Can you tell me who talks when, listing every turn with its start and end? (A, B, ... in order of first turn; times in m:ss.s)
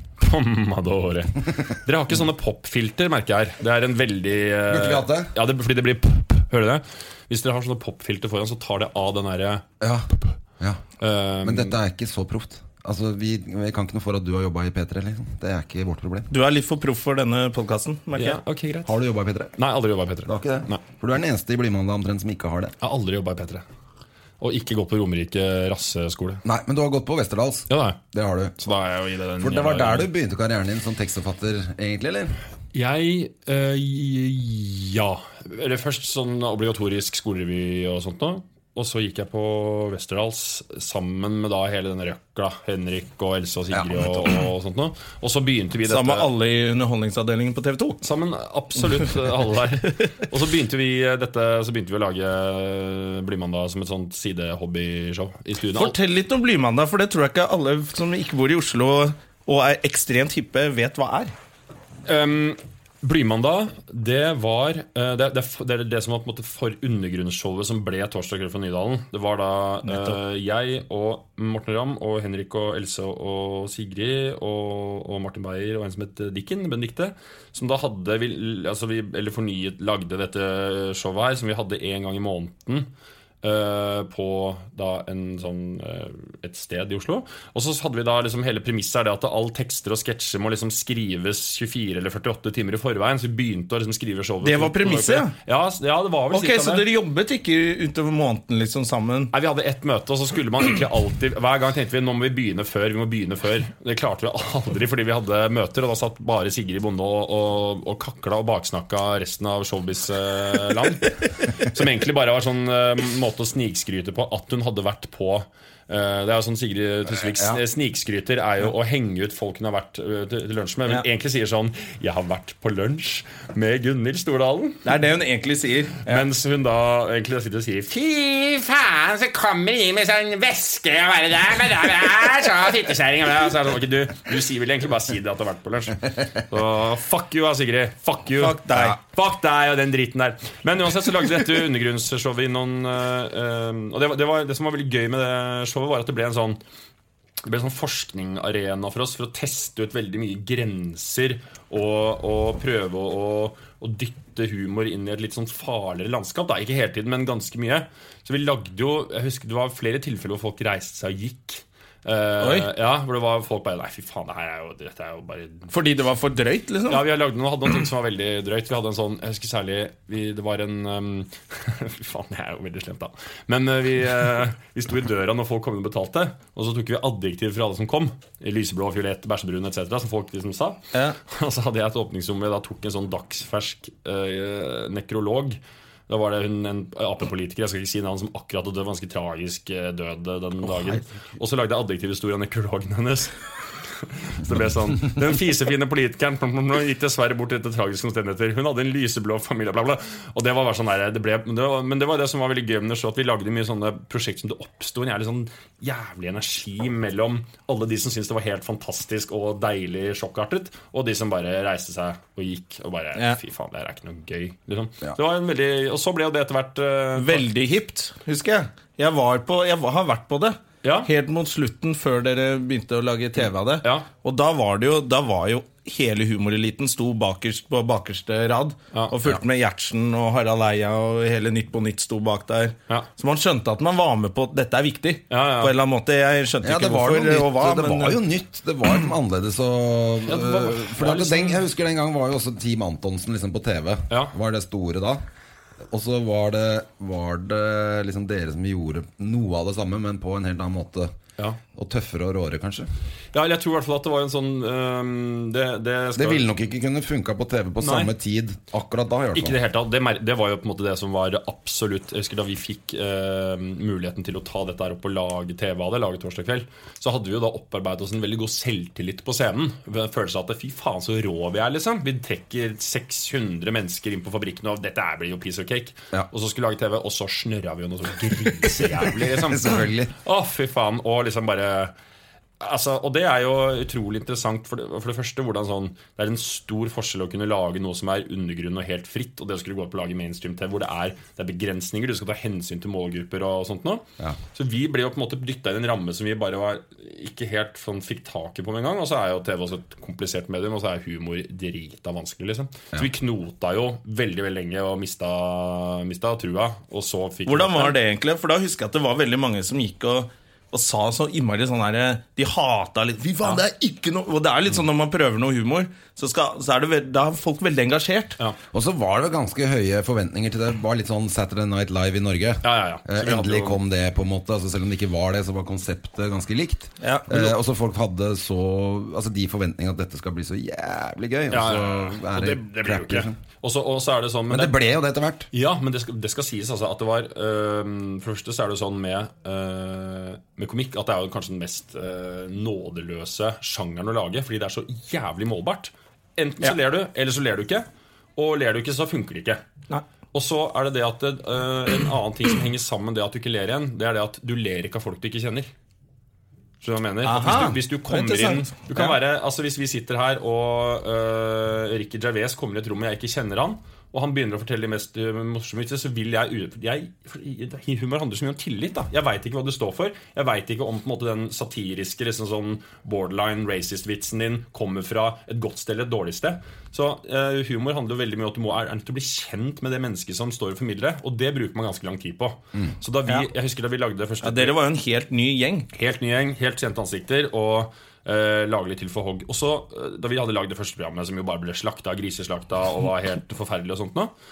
0:00.2-0:09.6 A
0:04.7-0:05.3 B
0:09.8-0:10.8 B
0:11.0-0:11.8 A
0:11.4-0:16.3 B
0:16.3-0:18.4 C
0:18.2-0:19.0 A
0:18.9-0:19.5 B
0:19.6-0:20.8 A
0:20.2-0:22.7 B
0:22.8-0:23.6 A
0:24.4-0:26.4 A
0:26.4-0:28.6 B
0:27.7-0:28.0 A
0:28.6-0:30.1 A
0:29.4-0:32.4 B
0:32.7-0:46.3 A
0:43.7-0:44.4 B
0:45.9-0:48.0 C
0:48.0-0:56.0 A
0:55.8-1:01.3 C
1:02.1-1:22.9 A
1:09.8-1:10.2 C
1:23.4-1:36.9 A
1:34.4-1:35.3 C
1:36.3-1:39.3 C
1:39.3-2:04.9 A
1:57.1-1:57.6 B
2:04.8-2:06.2 C
2:06.1-2:26.6 A
2:18.4-2:19.0 C
2:27.4-2:45.7 A
2:42.4-2:42.7 C
2:45.7-2:47.0 C
2:46.9-3:13.3 A
3:14.0-3:37.4 A
3:37.2-3:58.2 C
3:40.8-3:41.1 A
3:55.3-3:55.8 A
3:56.6-4:05.2 B
4:00.3-4:01.6 A
4:05.9-4:11.1 B
4:11.7-4:12.9 B
4:13.3-4:16.5 A
4:16.2-4:19.6 B
4:17.8-4:18.1 A
4:19.4-4:41.9 A
4:39.2-4:40.1 B
4:42.6-5:08.0 A
5:07.5-5:18.4 C
5:18.7-5:33.4 B
5:22.6-5:23.8 A
5:27.0-5:27.4 C
5:31.5-5:34.8 A
5:34.5-5:35.5 B
5:35.5-5:49.6 A
5:50.3-5:55.7 A
5:56.8-6:24.8 A
5:57.2-5:59.2 C
6:24.4-6:25.9 C
6:25.9-6:34.3 A